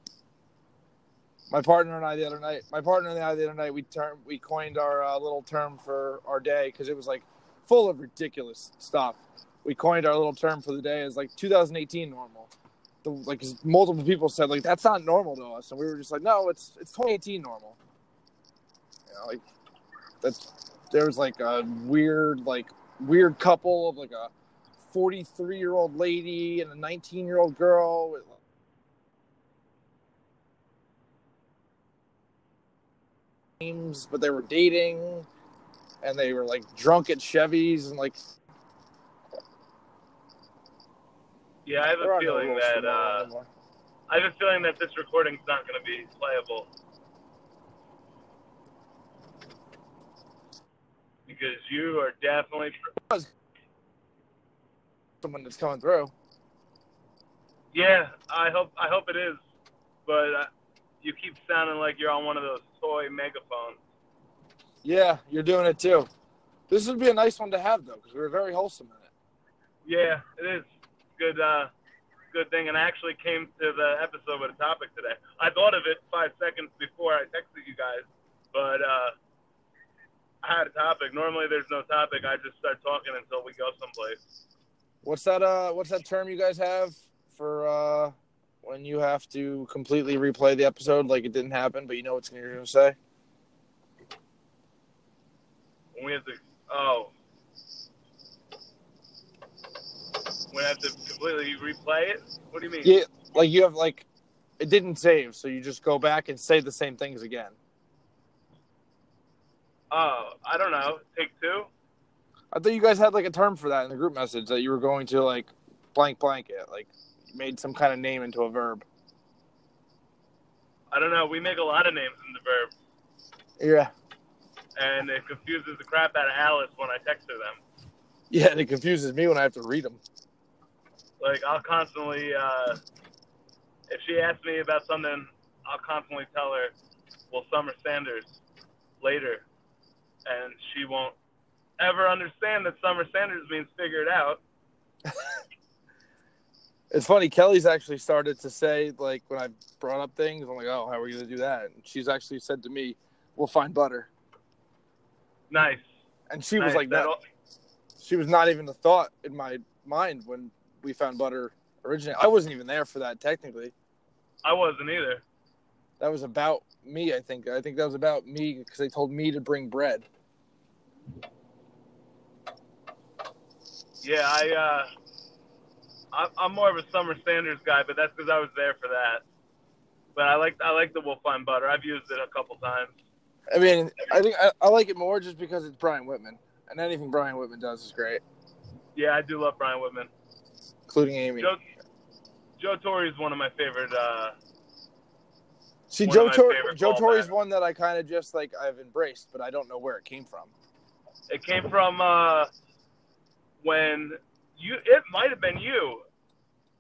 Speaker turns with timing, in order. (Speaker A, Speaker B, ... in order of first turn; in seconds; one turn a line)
Speaker A: 1.5-12.5
Speaker A: 13.0-17.8
Speaker A: 19.1-19.4
Speaker A: 20.2-24.3
Speaker A: 24.9-28.4
Speaker A: 33.6-35.3
Speaker A: 36.0-38.2
Speaker B: 41.7-43.3
Speaker A: 42.0-43.5
Speaker B: 44.1-46.7
Speaker B: 51.3-52.9
Speaker A: 55.2-56.1
Speaker B: 57.7-59.4
Speaker B: 60.1-60.5
Speaker B: 61.0-63.8
Speaker A: 64.8-66.1
Speaker A: 66.7-69.1
Speaker B: 69.8-71.7
Speaker B: 72.3-79.1
Speaker B: 80.4-84.2
Speaker A: 85.0-93.0
Speaker B: 96.0-97.1
Speaker B: 100.5-103.0
Speaker A: 102.8-104.1
Speaker A: 104.6-107.6
Speaker B: 109.9-111.7
Speaker A: 112.5-118.8
Speaker B: 120.9-122.7
Speaker A: 123.6-123.9
Speaker B: 124.8-127.6
Speaker A: 128.3-130.0
Speaker B: 131.2-132.8
Speaker B: 133.9-136.7
Speaker B: 137.3-138.3
Speaker B: 139.0-139.4
Speaker B: 140.3-141.2
Speaker B: 141.8-144.4
Speaker A: 145.1-145.3
Speaker A: 146.9-154.1
Speaker B: 155.5-155.9
Speaker A: 156.3-157.1
Speaker B: 156.6-157.2
Speaker A: 158.0-163.7
Speaker B: 164.4-165.2
Speaker A: 166.0-170.1
Speaker B: 174.0-174.9
Speaker B: 176.1-179.2
Speaker B: 180.2-182.9
Speaker A: 183.5-188.2
Speaker B: 188.9-190.1
Speaker A: 190.9-191.5
Speaker B: 192.6-194.3
Speaker A: 195.9-200.5
Speaker B: 196.0-197.3
Speaker B: 201.3-202.5
Speaker B: 203.6-206.0